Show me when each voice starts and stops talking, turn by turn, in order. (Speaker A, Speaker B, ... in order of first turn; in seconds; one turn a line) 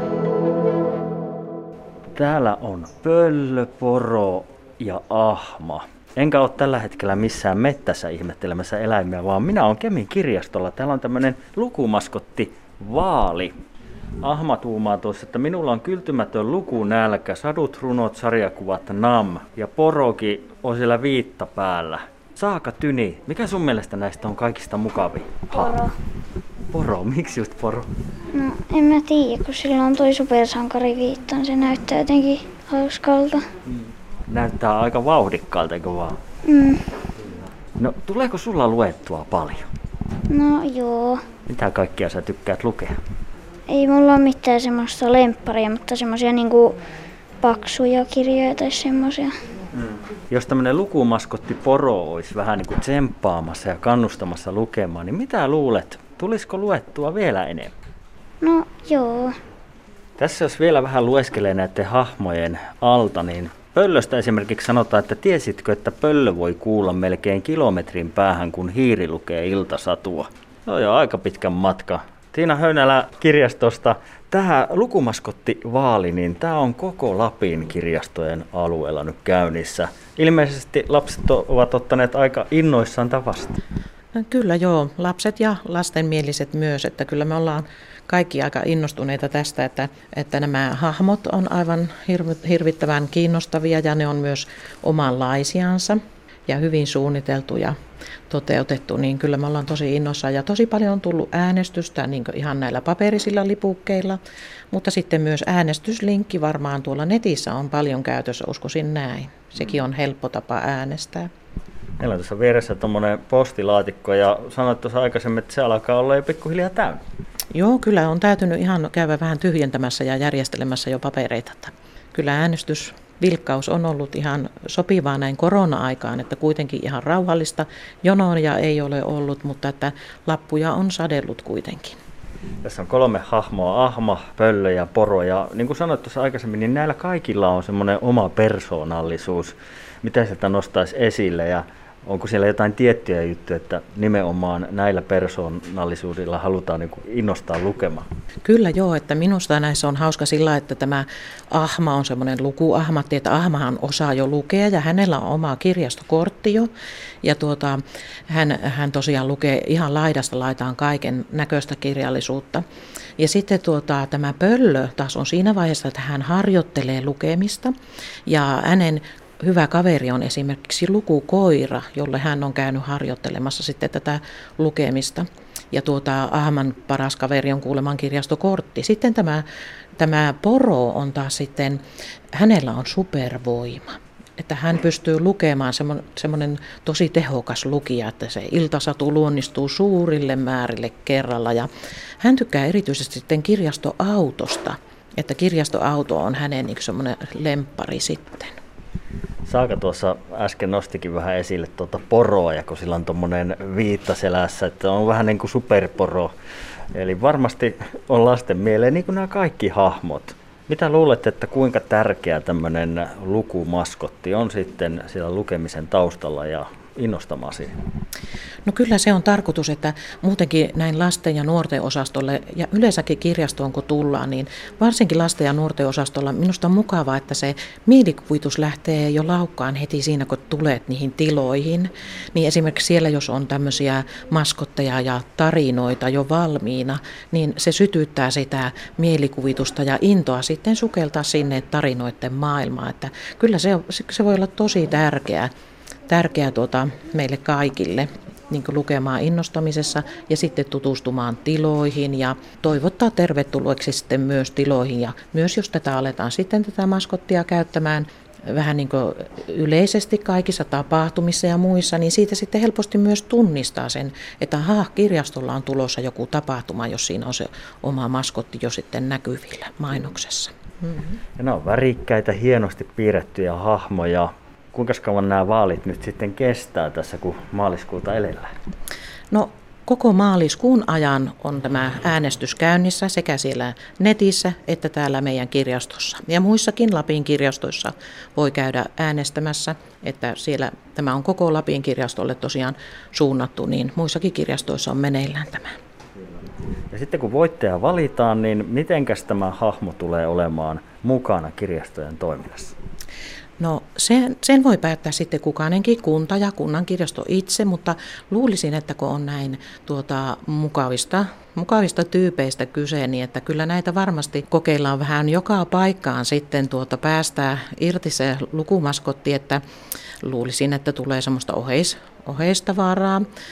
Speaker A: 2.1-13.5
Speaker A: 14.2-25.8
Speaker B: 25.5-25.9
Speaker A: 26.7-27.9
Speaker B: 28.3-33.4
Speaker A: 34.3-36.2
Speaker B: 36.5-36.9
Speaker A: 37.8-39.7
Speaker B: 40.3-41.3
Speaker A: 41.5-43.0
Speaker B: 43.7-46.8
Speaker B: 47.4-49.3
Speaker A: 49.7-57.7
Speaker B: 58.4-59.4
Speaker A: 60.2-83.6
Speaker C: 84.2-97.7
Speaker C: 98.3-104.2
Speaker C: 104.7-111.3
Speaker A: 112.0-117.0
Speaker C: 117.5-132.0
Speaker A: 132.6-148.1
Speaker C: 148.4-156.7
Speaker C: 157.2-162.6
Speaker C: 163.2-167.7
Speaker C: 168.3-179.4
Speaker C: 180.0-181.8
Speaker C: 182.3-191.7
Speaker C: 192.2-198.6
Speaker A: 199.5-206.3
Speaker A: 206.9-217.8
Speaker C: 218.7-245.5
Speaker C: 246.1-271.0
Speaker A: 271.4-278.5
Speaker C: 279.3-295.7
Speaker A: 296.9-302.7
Speaker C: 303.6-319.6
Speaker C: 320.2-323.3